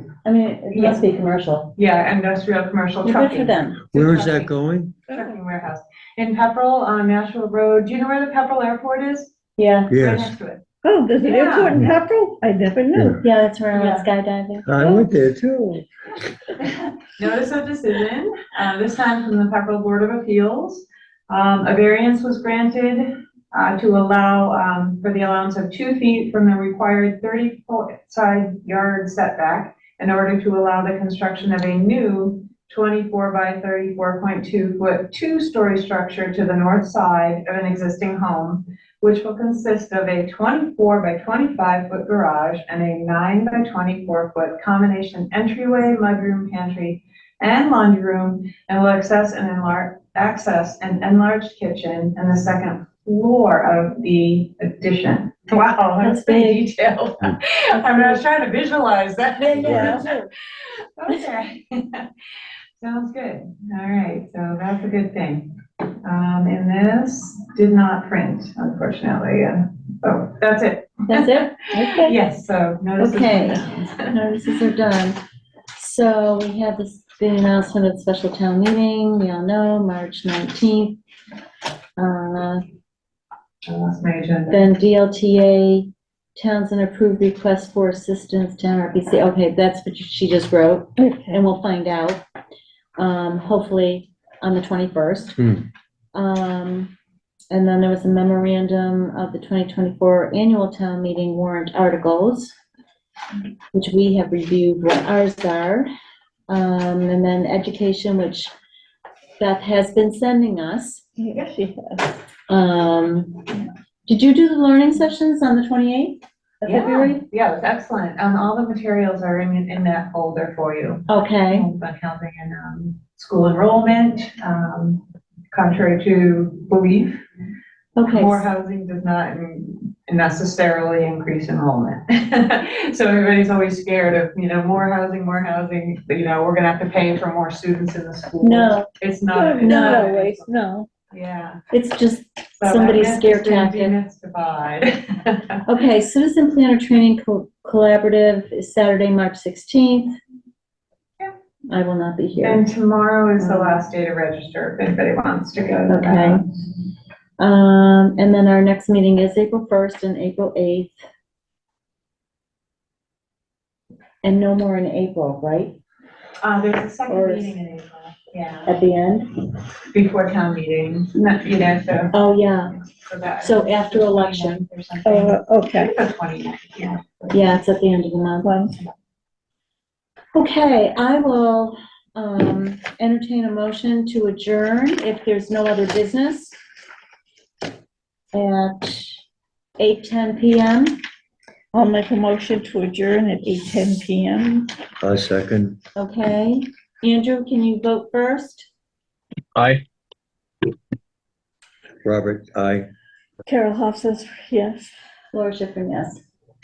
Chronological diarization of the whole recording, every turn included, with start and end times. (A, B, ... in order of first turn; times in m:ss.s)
0:00.2-0:01.7 A
0:00.7-0:01.0 B
0:01.8-0:04.5 B
0:03.0-0:03.8 A
0:03.9-0:04.9 C
0:05.1-0:09.3 B
0:09.6-0:09.9 A
0:09.9-0:10.6 B
0:09.9-0:10.3 C
0:10.8-0:13.2 D
0:11.2-0:11.8 B
0:12.9-0:13.2 C
0:13.2-0:15.0 A
0:14.6-0:15.8 C
0:16.7-1:00.1 B
0:56.0-0:56.7 A
0:59.4-1:00.1 A
0:59.5-1:00.1 D
1:01.0-1:02.1 B
1:02.8-1:05.5 B
1:06.0-1:11.4 B
1:11.1-1:11.7 A
1:11.7-1:12.1 D
1:12.0-1:14.1 B
1:13.0-1:15.2 A
1:15.7-1:21.0 A
1:22.0-1:22.6 A
1:23.7-1:24.6 B
1:24.5-1:32.2 A
1:31.0-1:31.4 D
1:33.0-1:35.6 A
1:36.1-1:36.9 A
1:37.5-1:42.5 A
1:43.7-1:45.9 A
1:46.5-1:48.5 A
1:49.4-1:51.0 A
1:51.2-1:52.1 D
1:52.5-1:57.2 A
1:56.6-2:07.2 B
2:01.1-2:01.6 A
2:08.0-2:08.4 A
2:08.1-2:20.5 B
2:18.4-2:18.9 A
2:19.3-2:20.9 D
2:19.6-2:20.0 A
2:21.1-2:21.6 B
2:21.7-2:24.0 A
2:22.6-2:25.6 B
2:25.6-2:30.2 A
2:31.7-2:32.6 A
2:32.4-2:36.4 B
2:33.4-2:33.8 A
2:35.9-2:36.4 A
2:37.4-2:40.9 A
2:44.2-2:45.8 A
2:46.4-2:48.7 B
2:47.1-2:47.5 A
2:48.6-2:49.3 A
2:49.9-2:52.1 B
2:52.1-2:52.8 A
2:52.8-2:57.4 B
2:53.4-2:54.6 A
2:55.0-2:55.9 D
2:57.3-2:58.5 A
2:58.4-2:58.8 D
3:00.3-3:06.5 A
3:08.3-3:09.2 A
3:09.8-3:10.9 A
3:11.7-3:14.7 D
3:15.0-3:15.8 C
3:16.0-3:18.7 A
3:22.0-3:22.9 C
3:23.5-3:24.9 D
3:25.3-3:26.2 A